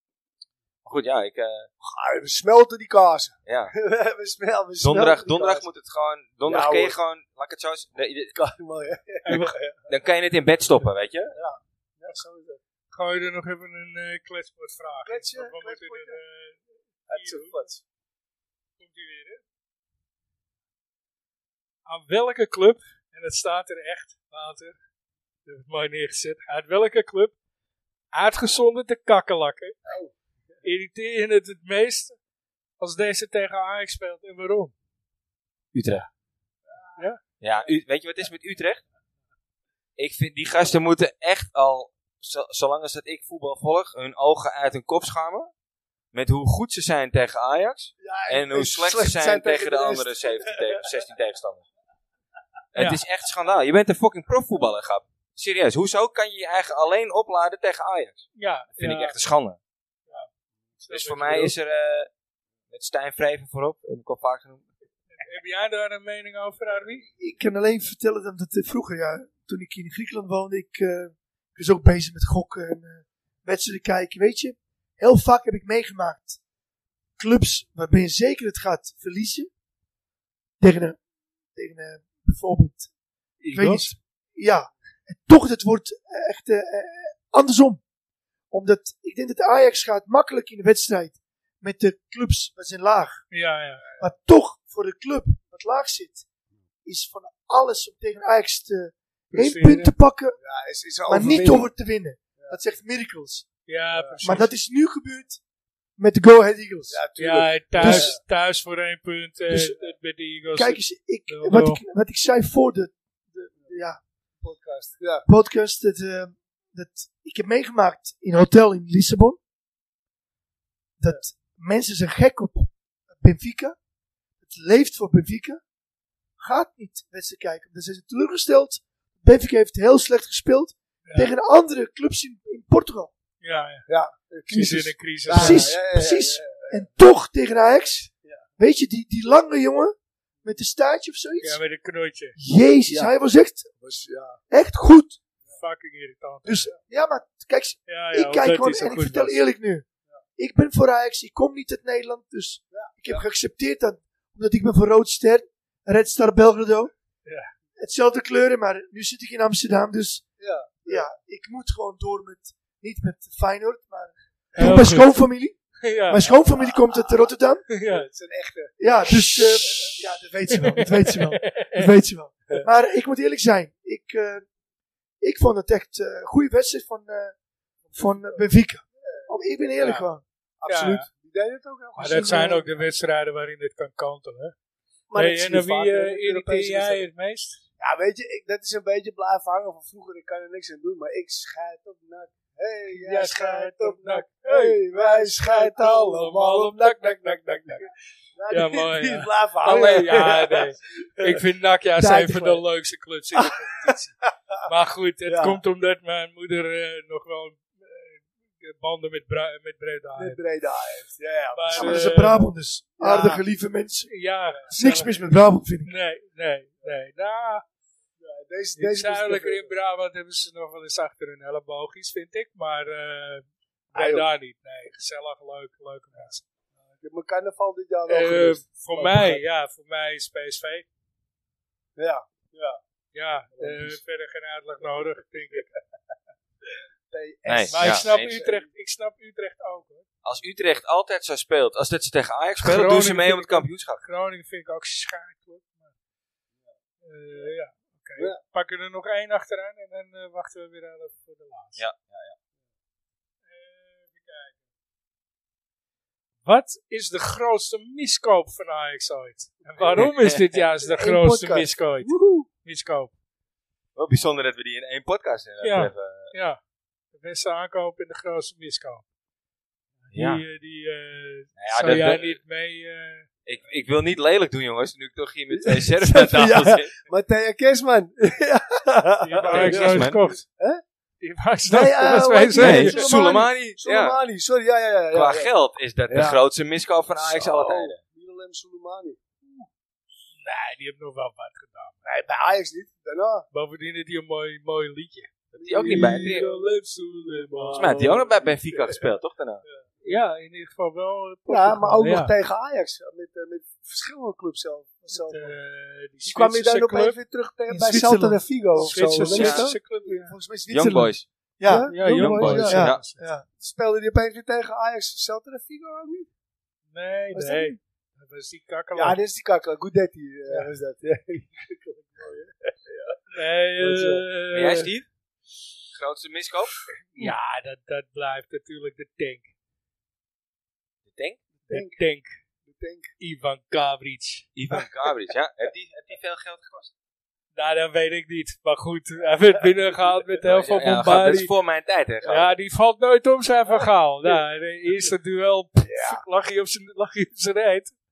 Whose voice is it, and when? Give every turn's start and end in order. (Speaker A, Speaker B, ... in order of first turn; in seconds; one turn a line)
Speaker A: 0.8-1.7
Speaker B: 1.8-5.7
Speaker A: 3.5-3.7
Speaker A: 4.8-8.3
Speaker B: 6.5-7.0
Speaker B: 8.3-9.9
Speaker C: 9.2-9.6
Speaker A: 9.9-11.3
Speaker B: 11.3-12.6
Speaker C: 12.9-17.7
Speaker B: 15.1-16.2
Speaker B: 17.1-17.8
Speaker C: 18.8-19.4
Speaker C: 21.9-24.8
Speaker C: 25.4-27.4
Speaker C: 28.1-29.8
Speaker B: 29.9-30.6
Speaker C: 30.6-32.2
Speaker C: 32.8-34.7
Speaker A: 35.7-36.1
Speaker B: 36.7-37.0
Speaker A: 37.4-38.8
Speaker A: 40.0-45.5
Speaker A: 46.1-51.6
Speaker B: 48.0-50.9
Speaker A: 52.7-59.6
Speaker C: 52.8-53.0
Speaker C: 58.4-59.2
Speaker C: 60.8-61.5
Speaker A: 60.9-62.1
Speaker A: 62.7-64.7
Speaker C: 65.2-67.0
Speaker D: 67.1-76.4
Speaker D: 77.2-79.5
Speaker D: 80.6-81.0
Speaker D: 81.5-82.9
Speaker C: 83.4-83.9
Speaker D: 83.5-87.8
Speaker D: 88.5-93.2
Speaker C: 93.3-93.8
Speaker B: 93.8-94.1
Speaker D: 94.0-96.2
Speaker D: 96.8-100.4
Speaker C: 99.3-99.9
Speaker B: 100.4-101.7
Speaker D: 101.1-103.5
Speaker C: 103.7-104.5
Speaker B: 103.9-104.3
Speaker D: 104.2-105.4
Speaker D: 106.0-107.0
Speaker B: 106.9-108.2
Speaker C: 107.2-111.8
Speaker D: 107.8-108.1
Speaker D: 109.5-109.7
Speaker D: 110.5-114.0
Speaker B: 114.4-115.3
Speaker D: 115.3-119.4
Speaker D: 121.0-123.8
Speaker D: 124.4-125.6
Speaker D: 126.4-133.1
Speaker C: 131.1-131.3
Speaker C: 133.4-133.9
Speaker B: 133.9-136.9
Speaker C: 134.5-135.8
Speaker D: 135.3-141.6
Speaker C: 141.4-142.4
Speaker D: 142.4-143.7
Speaker B: 142.9-143.1
Speaker B: 143.8-144.4
Speaker D: 144.5-145.2
Speaker C: 145.5-146.7
Speaker D: 146.4-149.8
Speaker C: 147.9-149.4
Speaker D: 150.4-156.9
Speaker B: 152.7-153.2
Speaker D: 157.8-160.2
Speaker B: 160.4-161.1
Speaker D: 160.8-167.7
Speaker C: 164.6-165.1
Speaker C: 165.8-166.2
Speaker B: 166.3-167.3
Speaker C: 167.7-168.1
Speaker B: 167.9-170.0
Speaker D: 168.8-174.4
Speaker C: 170.5-171.9
Speaker D: 175.2-177.3
Speaker B: 177.9-178.4
Speaker D: 177.9-180.2
Speaker B: 179.0-180.1
Speaker B: 180.6-182.8
Speaker C: 180.7-181.1
Speaker C: 182.0-184.6
Speaker D: 182.0-182.6
Speaker B: 185.1-187.1
Speaker C: 185.1-187.6
Speaker B: 187.8-201.4
Speaker C: 192.9-197.9
Speaker C: 198.5-204.1
Speaker B: 202.0-202.6
Speaker B: 203.4-204.0
Speaker C: 204.6-210.4
Speaker B: 205.3-205.6
Speaker B: 210.2-212.2
Speaker C: 211.5-212.5
Speaker D: 211.7-214.1
Speaker C: 213.0-213.4
Speaker C: 214.1-215.2
Speaker B: 214.5-214.8
Speaker D: 214.7-215.9
Speaker C: 215.8-217.6
Speaker B: 218.2-219.7
Speaker C: 218.8-226.4
Speaker B: 223.9-224.3
Speaker B: 226.9-229.4
Speaker C: 228.1-230.9
Speaker B: 232.0-232.8
Speaker C: 233.1-235.7
Speaker B: 233.5-234.0
Speaker B: 237.1-238.7
Speaker A: 237.4-238.4
Speaker C: 237.7-240.1
Speaker A: 240.2-244.0
Speaker C: 242.6-245.9
Speaker C: 247.0-251.8
Speaker A: 251.8-252.3
Speaker C: 253.4-254.5
Speaker C: 256.4-263.1
Speaker B: 259.7-260.1
Speaker A: 260.0-260.4
Speaker B: 260.8-262.5
Speaker A: 263.9-266.3
Speaker C: 265.6-266.6
Speaker C: 267.1-269.1
Speaker C: 270.1-273.3
Speaker A: 270.1-270.4
Speaker A: 271.6-272.4
Speaker A: 273.4-276.9
Speaker B: 275.6-280.8
Speaker C: 279.2-280.4
Speaker A: 279.4-280.2
Speaker C: 281.2-283.1
Speaker B: 281.7-285.5
Speaker A: 282.6-284.2
Speaker A: 285.1-288.0
Speaker B: 286.1-286.4
Speaker B: 287.2-289.7
Speaker C: 290.3-291.9
Speaker B: 292.1-293.5
Speaker C: 293.5-298.1
Speaker A: 295.5-296.5
Speaker B: 295.6-299.1
Speaker A: 297.7-299.6
Speaker B: 299.6-300.2
Speaker C: 300.0-302.3
Speaker B: 301.5-305.5
Speaker C: 305.1-307.2
Speaker B: 306.2-310.2
Speaker D: 307.7-308.4
Speaker C: 308.8-310.3
Speaker A: 309.2-309.7
Speaker D: 310.2-311.9
Speaker A: 310.7-311.3
Speaker B: 311.6-312.8
Speaker C: 311.9-313.2
Speaker A: 312.1-313.0
Speaker D: 312.6-313.4
Speaker B: 313.6-316.3
Speaker C: 316.9-319.2
Speaker B: 317.3-317.7
Speaker B: 318.9-323.2
Speaker C: 323.3-324.9
Speaker B: 323.8-324.2
Speaker A: 324.5-325.1
Speaker A: 325.9-326.7
Speaker C: 327.2-329.5
Speaker A: 331.1-331.4
Speaker B: 331.6-332.0
Speaker C: 331.7-332.4
Speaker B: 332.6-333.1
Speaker C: 333.2-334.5
Speaker A: 334.6-336.9
Speaker C: 337.6-341.5
Speaker A: 340.4-342.5
Speaker B: 342.2-342.5
Speaker C: 342.2-347.9
Speaker B: 343.7-344.4
Speaker B: 345.8-346.2